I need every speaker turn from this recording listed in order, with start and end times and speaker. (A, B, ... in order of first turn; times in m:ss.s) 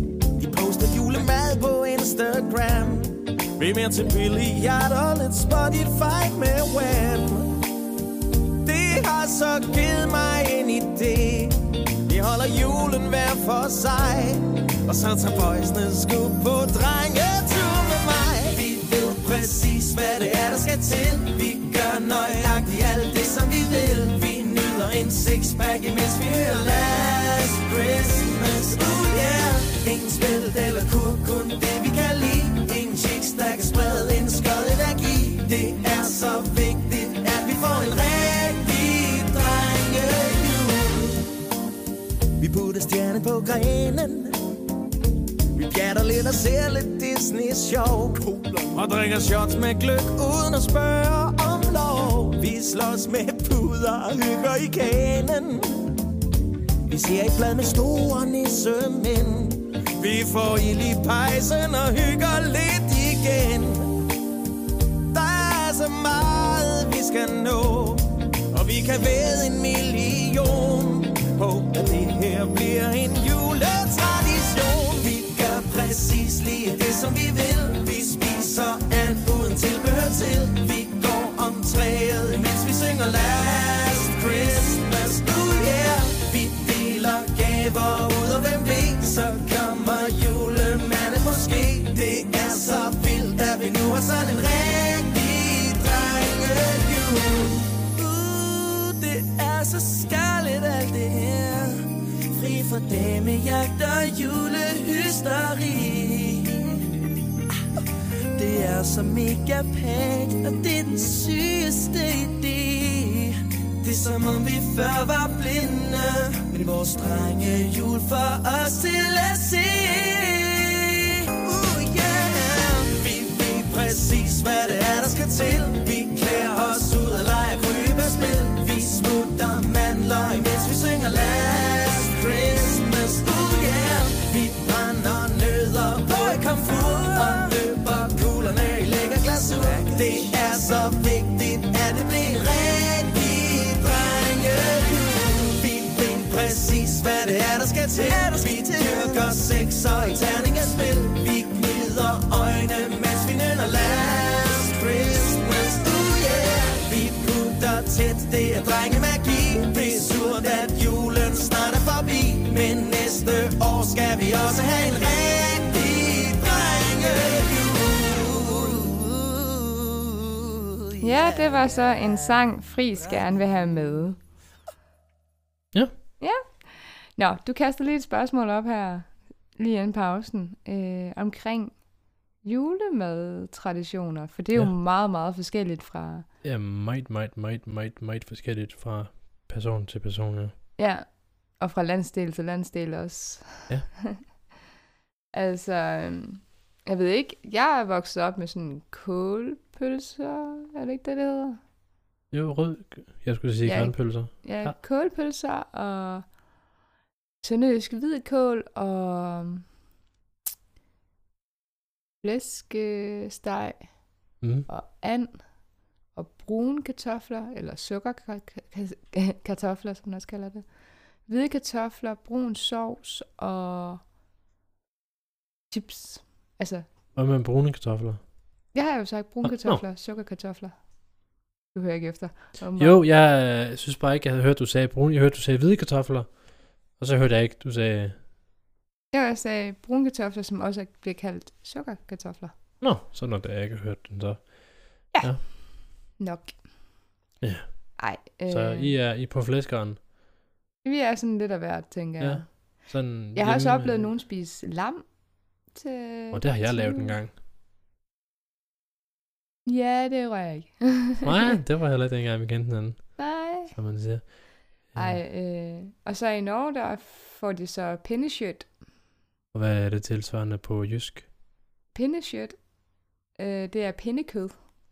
0:00.4-0:07.5 A
0:08.6-0:41.2 A
0:42.4-0:44.4 A
0:45.5-0:55.9 A
0:56.9-1:03.9 A
1:05.1-1:46.8 A
1:48.4-2:49.8 A
2:51.0-2:54.2 B
2:56.2-3:01.9 B
3:02.4-3:06.2 B
3:06.4-3:10.5 C
3:10.8-3:14.2 B
3:15.3-3:21.6 B
3:22.3-3:24.8 C
3:23.6-3:26.3 B
3:27.4-3:29.7 B
3:32.2-3:35.6 B
3:34.4-3:34.7 C
3:36.1-3:44.0 B
3:45.7-3:46.8 B
3:47.1-3:48.3 C
3:48.7-3:50.8 B
3:49.4-3:49.8 C
3:51.7-3:53.0 B
3:52.8-3:58.2 C
3:59.1-4:02.5 B
4:02.8-4:05.4 C
4:05.1-4:06.6 B
4:07.4-4:10.0 C
4:08.0-4:08.9 B
4:10.8-4:15.1 B
4:12.2-4:14.1 C
4:15.7-4:17.2 B
4:16.3-4:17.3 C
4:19.6-4:21.5 B
4:21.2-4:25.2 C
4:23.2-4:24.3 B
4:24.9-4:28.7 B
4:29.5-4:31.3 C
4:31.9-4:32.6 B
4:33.3-4:34.6 B